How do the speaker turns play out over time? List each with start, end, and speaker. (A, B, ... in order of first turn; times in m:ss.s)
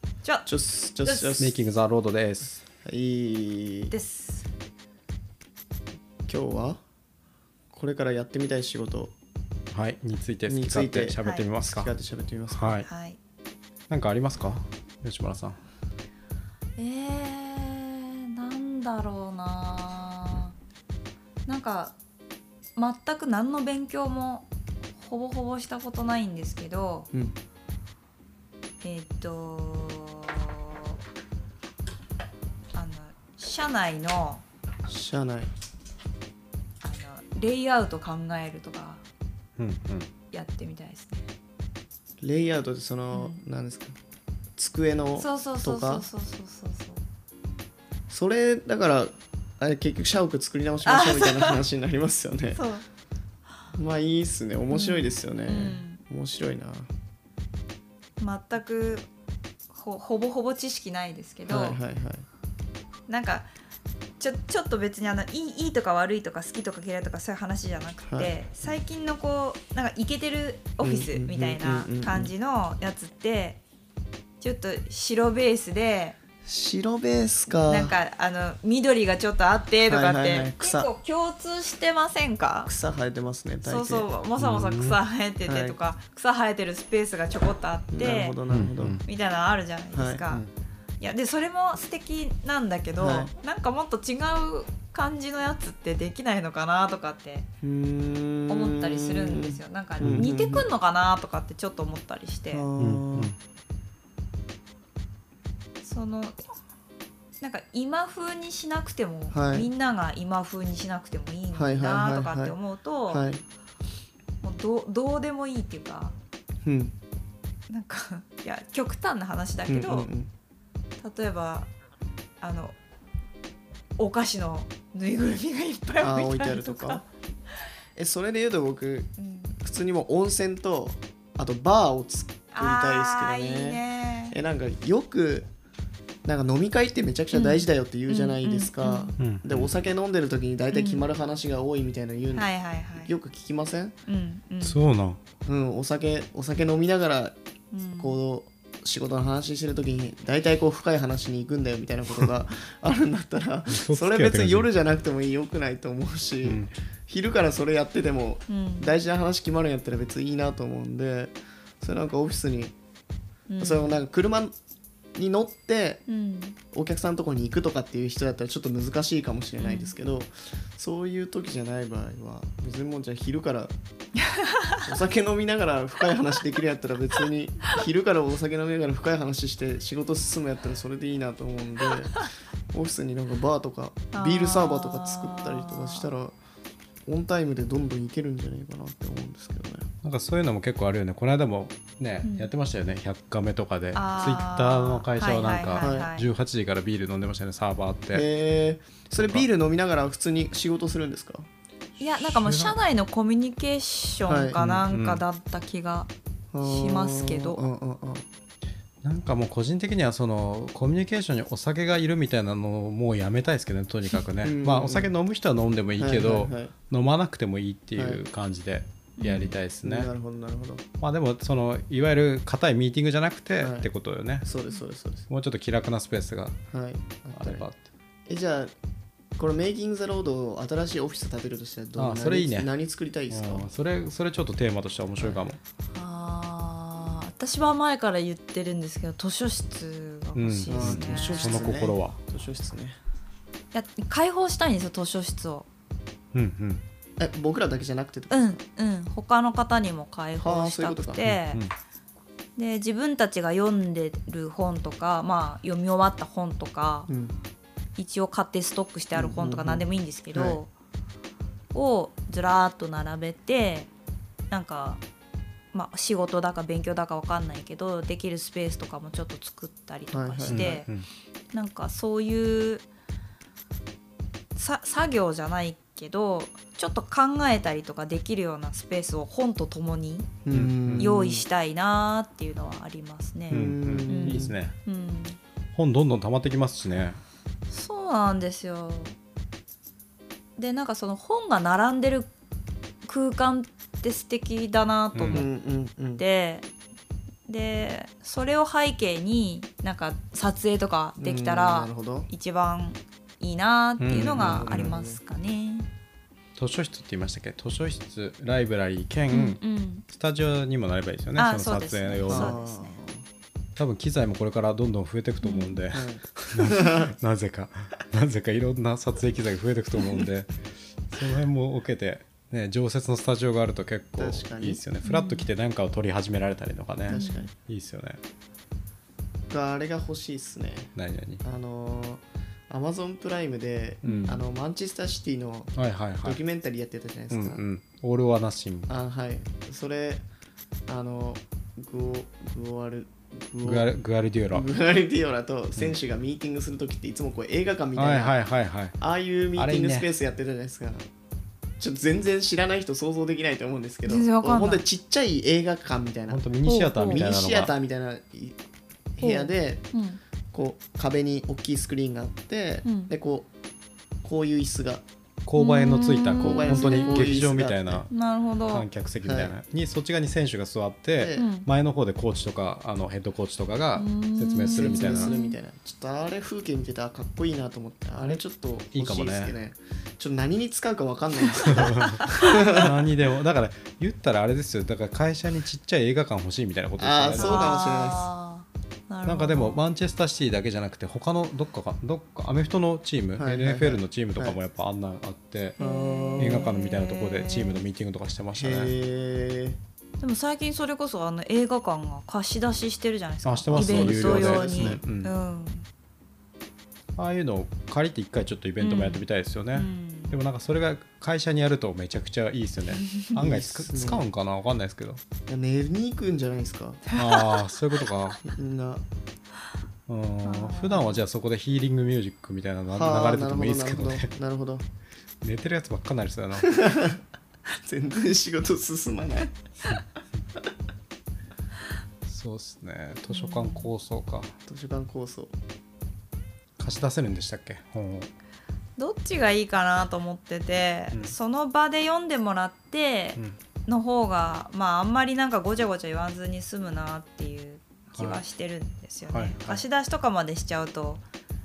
0:00.4-0:01.6 A
0:01.0-0:01.4 B
0:01.4-0:02.6 C
0:02.8-0:03.9 A
0:03.9-0:04.5 B
0:06.3-0:06.8 A
0:07.7-0:09.1 A
0:09.7-0:11.9 C
0:10.4-0:12.8 A
0:11.2-0:11.5 B
0:12.5-0:12.9 C
0:12.8-0:13.2 B
0:13.9-0:15.6 C
0:16.8-0:20.5 B
0:21.4-0:22.0 B
0:22.8-0:27.1 B
0:28.8-0:31.0 B
0:32.7-0:34.4 B
0:34.9-0:35.5 A
0:36.8-0:39.0 B
0:39.6-0:40.1 C
0:40.3-0:41.3 B
0:42.2-0:44.0 A
0:43.1-0:43.4 B
0:44.6-0:46.1 A
0:45.2-0:47.0 B
0:48.1-0:52.6 A
0:50.8-0:51.6 B
0:52.5-0:52.8 B
0:53.7-0:56.9 A
0:54.7-0:56.0 B
0:58.2-0:59.1 B
0:59.7-1:01.8 B
1:01.5-1:02.2 A
1:03.1-1:03.5 B
1:04.2-1:13.6 B
1:08.0-1:08.8 A
1:10.8-1:12.3 A
1:14.4-1:16.2 B
1:16.4-1:18.0 A
1:17.5-1:22.7 B
1:19.8-1:20.9 A
1:22.6-1:24.1 A
1:23.6-1:28.4 B
1:24.4-1:25.0 C
1:25.4-1:25.8 A
1:27.9-1:29.0 A
1:28.5-1:29.0 C
1:29.0-1:30.5 B
1:29.9-1:30.2 A
1:31.0-1:37.5 B
1:33.0-1:33.3 A
1:37.6-1:40.6 A
1:38.5-1:42.7 B
1:40.0-1:40.3 C
1:42.5-1:43.3 A
1:42.8-1:43.4 C
1:45.8-1:46.4 B
1:47.4-1:53.2 B
1:49.3-1:49.7 A
1:51.5-1:52.6 A
1:53.1-1:53.4 A
1:54.4-1:56.2 B
1:56.6-1:56.9 A
1:57.7-2:00.1 B
1:59.7-2:00.3 A
2:01.0-2:01.7 B
2:02.4-2:02.8 B
2:04.0-2:07.0 B
2:06.0-2:07.0 A
2:08.0-2:15.5 A
2:09.2-2:09.6 B
2:12.5-2:14.4 B
2:16.2-2:22.5 A
2:17.3-2:19.2 B
2:19.2-2:19.7 C
2:20.7-2:21.1 B
2:22.3-2:23.1 B
2:23.0-2:23.9 A
2:24.1-2:24.8 B
2:24.6-2:25.2 C
2:25.4-2:27.3 A
2:27.7-2:28.2 B
2:28.0-2:42.7 A
2:33.7-2:34.7 C
2:36.4-2:36.7 C
2:38.5-2:38.9 B
2:43.5-2:44.0 B
2:43.6-2:44.5 A
2:45.2-2:46.1 A
2:46.1-2:46.6 B
2:46.7-2:53.7 A
2:49.6-2:49.9 B
2:54.3-2:54.7 B
2:54.8-3:06.4 A
3:04.1-3:06.1 B
3:07.0-3:09.8 A
3:10.0-3:18.3 C
3:12.2-3:12.5 B
3:13.9-3:16.3 B
3:15.8-3:16.1 A
3:18.1-3:21.5 A
3:19.2-3:19.4 C
3:22.0-3:22.8 C
3:22.0-3:26.1 B
3:24.3-3:24.6 A
3:24.6-3:25.2 C
3:26.5-3:28.2 A
3:26.6-3:27.6 B
3:29.0-3:40.1 C
3:34.4-3:35.1 A
3:36.0-3:36.7 A
3:37.9-3:38.2 A
3:39.2-3:39.6 B
3:39.8-3:40.8 A
3:41.0-3:44.5 C
3:43.6-3:43.9 A
3:44.4-3:45.3 A
3:45.3-3:46.6 C
3:46.7-3:47.7 A
3:47.3-3:47.8 C
3:48.3-3:48.7 A
3:49.4-3:53.7 A
3:52.0-3:52.7 C
3:53.3-3:55.6 C
3:55.2-3:55.6 A
3:55.9-4:01.8 B
4:00.3-4:02.2 C
4:00.7-4:03.0 A
4:03.7-4:05.7 B
4:06.3-4:06.8 C
4:07.2-4:08.6 A
4:08.3-4:11.6 B
4:10.4-4:11.2 A
4:11.2-4:11.7 C
4:12.6-4:17.1 B
4:17.1-4:17.4 A
4:18.0-4:20.7 B
4:19.1-4:20.6 A
4:21.7-4:23.9 B
4:24.5-4:25.0 B
4:25.7-4:30.9 B
4:30.1-4:30.8 A
4:30.5-4:31.1 C
4:31.5-4:32.9 B
4:34.5-4:40.3 B
4:40.4-4:41.4 A
4:40.5-4:41.1 C
4:41.0-4:45.4 B
4:43.5-4:44.6 A
4:43.5-4:44.7 C
4:45.7-4:47.2 C
4:47.7-4:49.2 B
4:50.6-4:52.3 B
4:53.0-4:55.5 B
4:55.1-4:55.4 C
4:55.3-4:56.2 A
4:56.2-4:56.7 B
4:57.5-5:05.9 B
5:01.2-5:02.3 A
5:04.0-5:04.9 C
5:04.1-5:05.2 A
5:06.6-5:12.6 C
5:09.3-5:10.0 B
5:11.4-5:13.0 B
5:12.3-5:13.2 A
5:13.8-5:28.2 C
5:15.4-5:15.8 B
5:15.9-5:17.1 A
5:20.0-5:20.2 A
5:24.2-5:24.8 A
5:25.0-5:25.5 B
5:27.1-5:27.5 A
5:27.1-5:27.5 B
5:29.5-5:37.6 A
5:30.9-5:31.4 C
5:34.0-5:34.3 C
5:34.0-5:34.4 B
5:35.7-5:36.4 C
5:37.3-5:38.9 C
5:38.9-5:40.3 A
5:40.9-5:43.9 A
5:43.6-5:44.7 C
5:44.5-5:48.4 A
5:47.9-5:48.9 C
5:49.0-5:51.1 A
5:49.6-5:50.1 C
5:51.8-5:58.6 A
5:54.0-5:54.8 B
5:56.3-5:57.7 C
5:56.6-5:57.2 B
5:59.2-5:59.9 A
5:59.2-6:00.2 B
6:00.5-6:03.5 A
6:02.8-6:03.1 B
6:04.2-6:05.0 A
6:05.4-6:08.1 C
6:05.6-6:07.3 B
6:06.4-6:08.1 A
6:08.1-6:08.9 B
6:08.7-6:15.3 C
6:09.2-6:09.5 A
6:11.2-6:11.5 A
6:11.3-6:11.7 B
6:13.9-6:15.6 B
6:14.7-6:23.0 A
6:18.9-6:19.6 C
6:21.7-6:27.7 C
6:27.0-6:28.3 A
6:27.4-6:29.8 B
6:29.2-6:35.8 C
6:33.4-6:34.6 A
6:35.8-6:37.8 B
6:35.8-6:36.6 A
6:36.4-6:38.9 C
6:38.5-6:39.8 A
6:40.2-6:45.9 B
6:43.4-6:45.4 C
6:43.7-6:45.0 A
6:47.1-6:55.2 C
6:48.8-6:50.4 B
6:52.9-6:53.3 B
6:53.4-6:54.2 A
6:55.5-6:57.0 A
6:57.1-6:57.6 B
6:57.1-6:58.4 C
6:58.4-6:59.0 A
7:00.1-7:04.3 C
7:00.4-7:01.2 B
7:02.9-7:04.8 A
7:05.4-7:06.8 C
7:06.7-7:07.1 A
7:07.8-7:10.0 A
7:12.2-7:14.5 C
7:13.3-7:13.9 B
7:14.6-7:15.5 A
7:16.8-7:18.3 C
7:19.0-7:31.2 B
7:28.1-7:28.4 C
7:29.3-7:29.8 C